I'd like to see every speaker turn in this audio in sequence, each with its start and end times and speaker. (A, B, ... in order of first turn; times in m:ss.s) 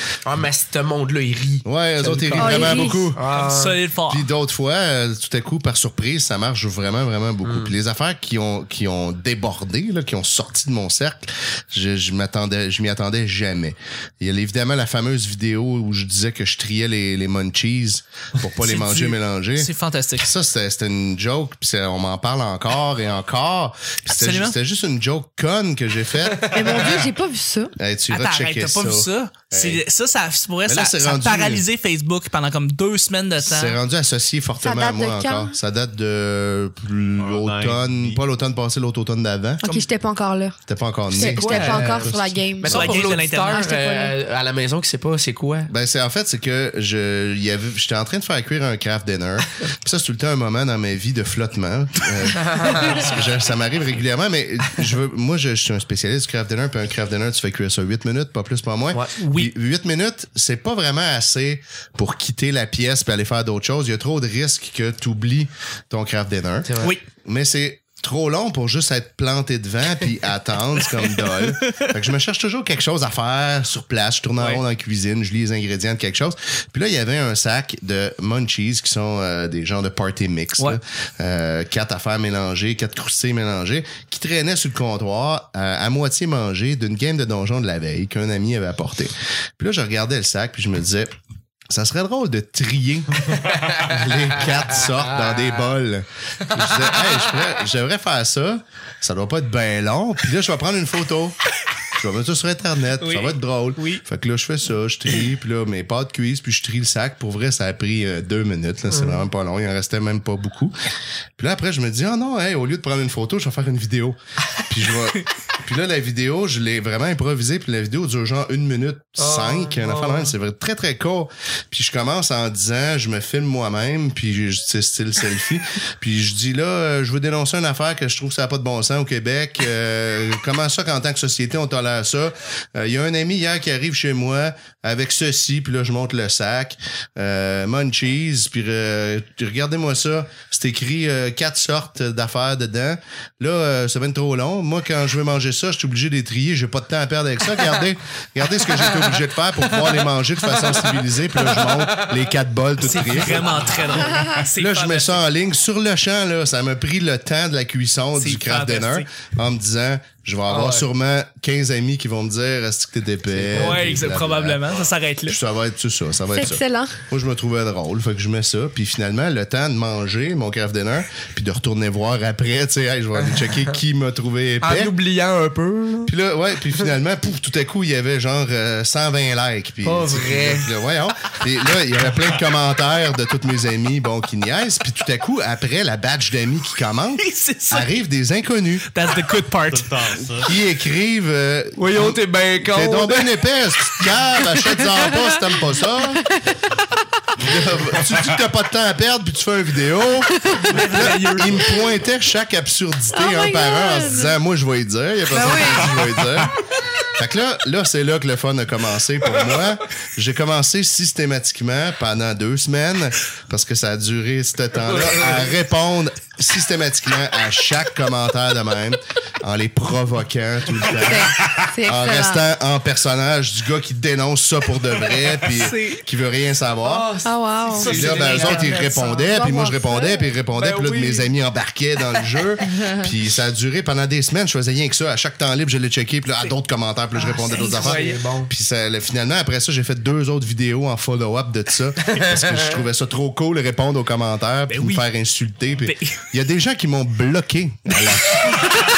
0:00.2-0:03.8 A
0:01.6-0:03.2 B
0:02.4-0:03.1 C
0:03.3-0:04.3 D
0:04.1-0:27.0 B
0:07.4-0:07.7 A
0:18.6-0:20.3 D
0:24.1-0:24.6 D
0:26.3-0:26.9 A
0:26.5-0:27.8 C
0:27.8-0:29.8 B
0:28.1-0:33.8 D
0:30.7-0:31.6 B
0:33.4-0:39.6 B
0:34.6-0:35.5 C
0:37.2-0:38.2 E
0:39.6-0:44.2 C
0:40.7-0:42.3 B
0:41.2-0:45.7 A
0:42.6-0:43.6 D
0:45.7-1:31.1 B
0:52.3-0:53.1 A
0:59.2-0:59.5 D
1:06.6-1:07.0 A
1:11.6-1:11.9 D
1:31.7-1:41.4 B
1:33.4-1:35.6 A
1:36.5-1:37.6 A
1:41.9-1:50.7 B
1:43.0-1:44.0 D
1:48.9-1:49.2 A
1:51.4-2:33.6 B
1:59.2-2:00.3 A
2:31.3-2:32.2 A
2:32.8-2:35.2 D
2:32.9-2:33.8 A
2:34.6-2:44.7 B
2:38.2-2:39.1 D
2:40.5-2:40.9 A
2:43.4-2:44.0 A
2:43.5-2:45.4 D
2:45.3-2:55.0 B
2:46.4-2:47.0 C
2:53.2-2:53.8 A
2:54.6-2:56.1 A
2:56.1-3:08.8 B
2:59.8-3:00.7 A
3:07.2-3:08.0 D
3:08.9-3:10.2 D
3:09.1-3:10.5 E
3:10.4-3:16.3 B
3:11.8-3:13.3 A
3:16.2-3:16.8 C
3:17.4-3:47.1 B
3:20.3-3:20.8 C
3:20.6-3:21.7 D
3:23.1-3:24.4 C
3:25.3-3:26.0 C
3:34.8-3:35.6 A
3:41.0-3:42.4 C
3:45.5-3:46.0 D
3:46.8-3:48.8 A
3:47.2-3:50.3 C
3:47.7-3:49.2 D
3:47.9-4:08.7 B
3:50.5-3:51.3 A
3:52.6-3:53.1 C
3:57.2-3:58.5 A
3:57.5-3:58.2 D
4:02.1-4:02.8 A
4:04.7-4:05.1 D
4:05.8-4:06.2 D